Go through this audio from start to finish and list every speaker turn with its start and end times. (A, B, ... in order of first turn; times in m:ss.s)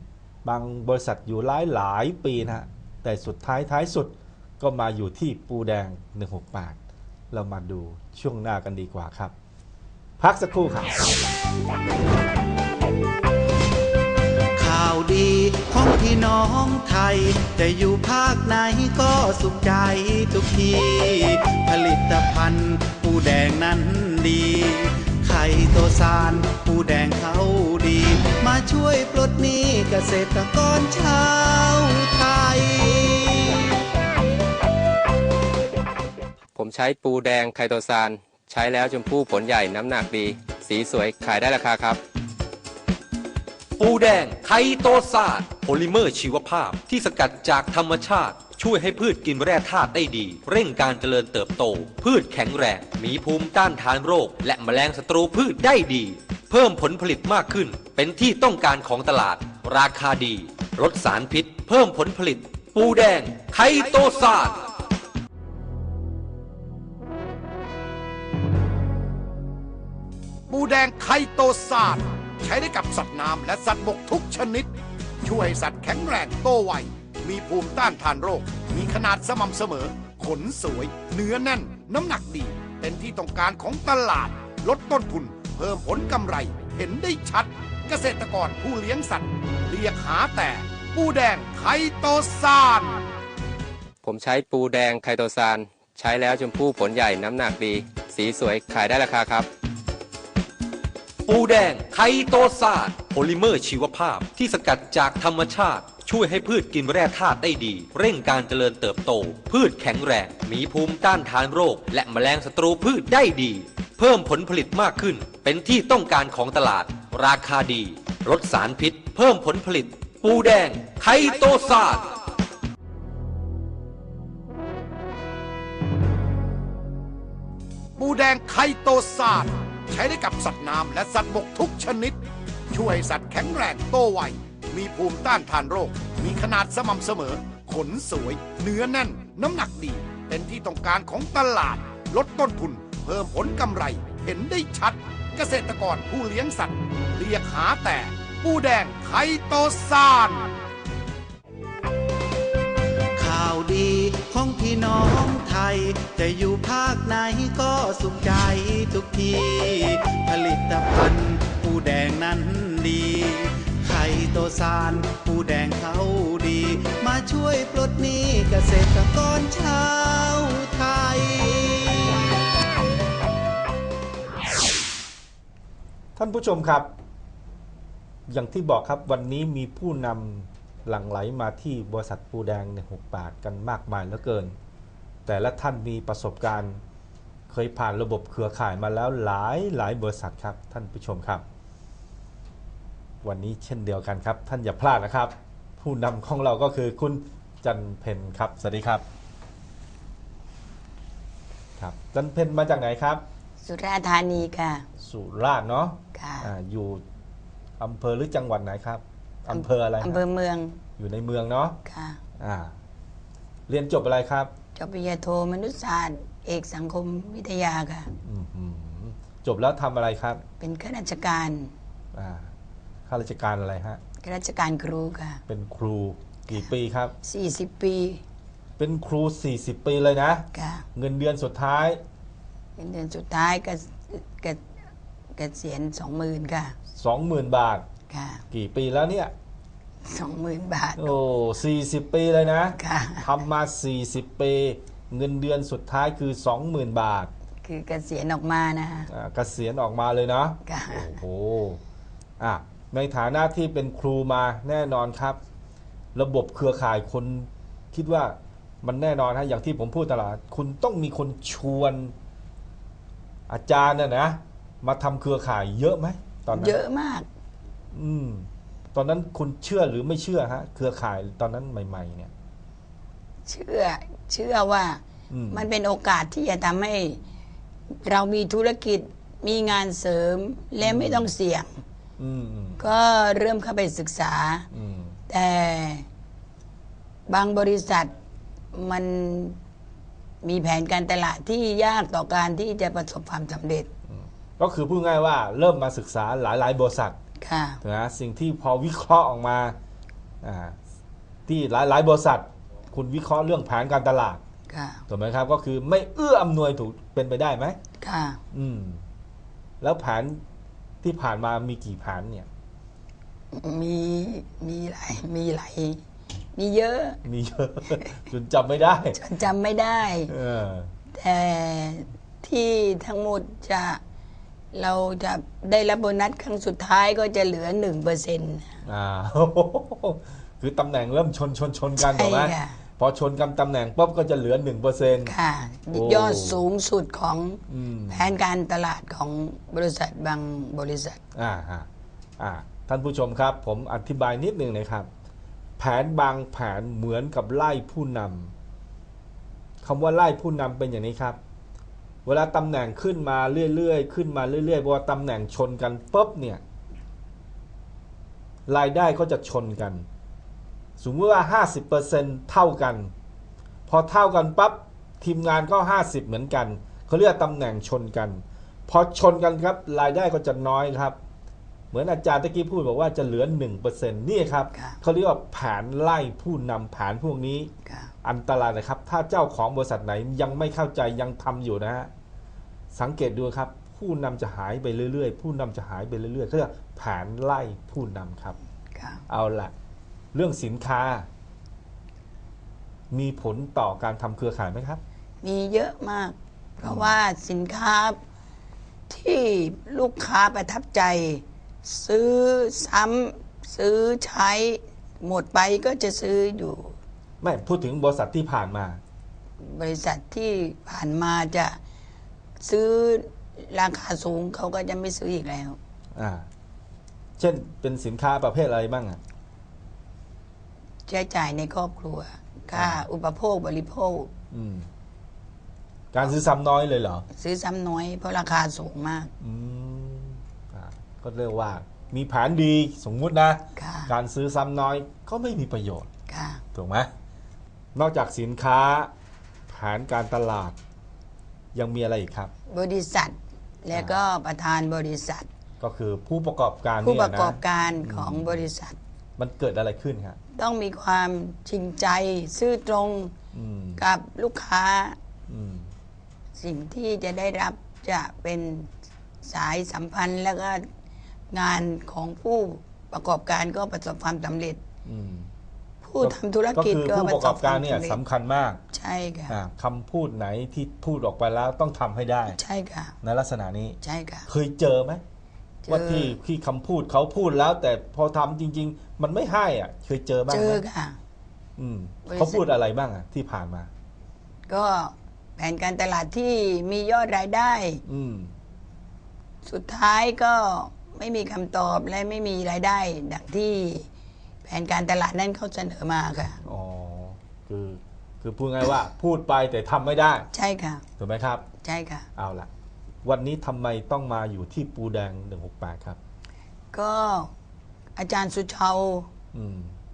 0:00.4-0:06.8 A
0:07.3-0:09.3 A
0:10.2-0:10.9 A
0:14.6-0:33.6 B
0:36.6-0:42.0 C
0:43.8-1:04.6 D
1:10.5-1:14.7 E
1:15.2-1:33.0 E
1:34.0-1:39.5 C
1:41.3-2:02.1 D
2:08.0-2:12.2 E
2:12.7-2:30.5 E
2:33.1-2:52.2 B
2:56.2-2:56.9 A
2:58.3-3:04.5 A
3:05.2-3:06.8 A
3:07.5-3:11.4 A
3:13.2-3:19.0 A
3:21.8-3:23.2 A
3:23.6-3:24.8 F
3:25.0-3:27.0 A
3:26.1-3:26.5 F
3:27.8-3:30.2 A
3:29.5-3:30.8 F
3:31.0-3:31.8 A
3:31.8-3:32.2 F
3:32.4-3:32.7 A
3:33.7-3:34.5 A
3:34.7-3:38.1 F
3:38.2-3:40.4 A
3:40.6-3:41.7 F
3:42.1-3:42.5 A
3:43.1-3:44.0 A
3:44.2-3:45.4 F
3:45.5-3:47.1 A
3:47.2-3:48.2 F
3:48.8-3:52.0 A
3:50.5-3:50.8 F
3:52.8-3:54.6 F
3:55.3-3:56.8 F
3:56.9-3:57.8 A
3:58.1-3:58.4 F
3:58.5-3:59.3 A
4:00.0-4:01.1 F
4:01.0-4:07.3 A
4:02.8-4:03.3 F
4:07.6-4:09.1 F
4:09.1-4:11.8 A
4:10.6-4:11.1 F
4:12.4-4:15.4 A
4:16.1-4:22.1 A
4:23.5-4:26.8 A
4:26.5-4:27.3 F
4:27.9-4:32.3 A
4:33.4-4:37.2 F
4:35.3-4:35.7 A
4:38.0-4:41.8 F
4:40.8-4:41.3 A
4:42.2-4:42.8 A
4:42.8-4:44.7 F
4:44.7-4:45.2 A
4:45.3-4:46.0 F
4:47.3-4:48.1 F
4:48.7-4:49.6 F
4:50.4-4:53.9 F
4:54.1-4:57.2 A
4:57.4-4:57.8 F
4:57.8-4:59.8 A
5:00.4-5:00.8 A
5:01.5-5:04.4 A
5:04.7-5:05.0 F
5:05.1-5:07.8 A
5:08.0-5:08.4 F
5:08.5-5:09.0 A
5:09.8-5:10.4 A
5:11.0-5:12.5 A
5:13.5-5:16.0 F
5:16.5-5:17.2 F
5:17.2-5:19.2 A
5:19.1-5:20.3 F
5:20.3-5:20.9 A
5:21.1-5:24.0 F
5:24.7-5:28.8 F
5:28.8-5:35.3 A
5:32.0-5:32.8 F
5:35.2-5:41.2 F
5:35.9-5:36.6 A
5:37.7-5:38.3 A
5:41.3-5:41.9 A
5:42.4-5:45.1 A
5:45.8-5:48.5 A
5:49.8-5:51.4 A
5:52.2-5:56.6 A
5:58.7-6:00.1 A
6:01.0-6:03.1 A
6:03.9-6:11.2 A
6:11.9-6:17.7 A
6:14.7-6:15.0 F
6:17.8-6:18.1 F
6:18.2-6:22.1 A
6:22.9-6:28.6 A
6:29.0-6:29.2 F
6:29.3-6:29.7 A
6:30.3-6:31.3 A
6:33.1-6:35.0 A
6:35.4-6:38.2 F
6:36.8-6:37.2 A
6:39.1-6:47.0 F
6:47.4-6:49.0 A
6:49.6-6:51.8 F
6:52.6-6:55.8 F
6:56.1-6:56.5 A
6:57.4-6:59.2 A
7:01.1-7:04.3 F
7:02.7-7:03.0 A
7:04.5-7:04.9 A
7:06.1-7:07.2 A
7:07.3-7:09.3 F
7:09.4-7:16.1 A
7:13.8-7:14.1 F
7:16.3-7:16.6 F
7:16.7-7:17.1 A
7:17.9-7:19.1 A
7:19.7-7:20.8 A
7:21.7-7:22.5 A
7:22.7-7:25.5 F
7:25.8-7:28.6 A
7:27.0-7:29.0 F
7:29.4-7:30.4 A
7:30.5-7:33.3 F
7:33.5-7:34.0 A
7:34.0-7:35.2 F
7:35.5-7:35.9 A
7:36.6-7:38.9 F
7:39.4-7:40.8 F
7:41.5-7:44.8 F
7:45.0-7:45.5 A
7:46.0-7:48.2 F
7:46.2-7:48.8 A
7:48.9-7:49.5 F
7:49.5-7:52.6 A
7:52.5-7:53.1 F
7:53.2-7:55.2 A
7:54.0-7:54.5 F
7:55.8-7:56.3 F
7:55.9-8:00.8 A
8:00.5-8:01.2 F
8:01.8-8:03.9 A
8:02.2-8:02.6 F
8:04.7-8:08.0 F
8:08.0-8:08.5 A
8:09.6-8:14.1 F
8:14.6-8:16.6 F
8:16.6-8:20.5 A
8:20.5-8:21.0 F
8:21.2-8:21.6 A
8:21.8-8:22.3 F
8:22.4-8:22.7 A
8:23.2-8:26.2 A
8:26.9-8:27.5 F
8:28.2-8:29.3 F
8:29.5-8:29.9 A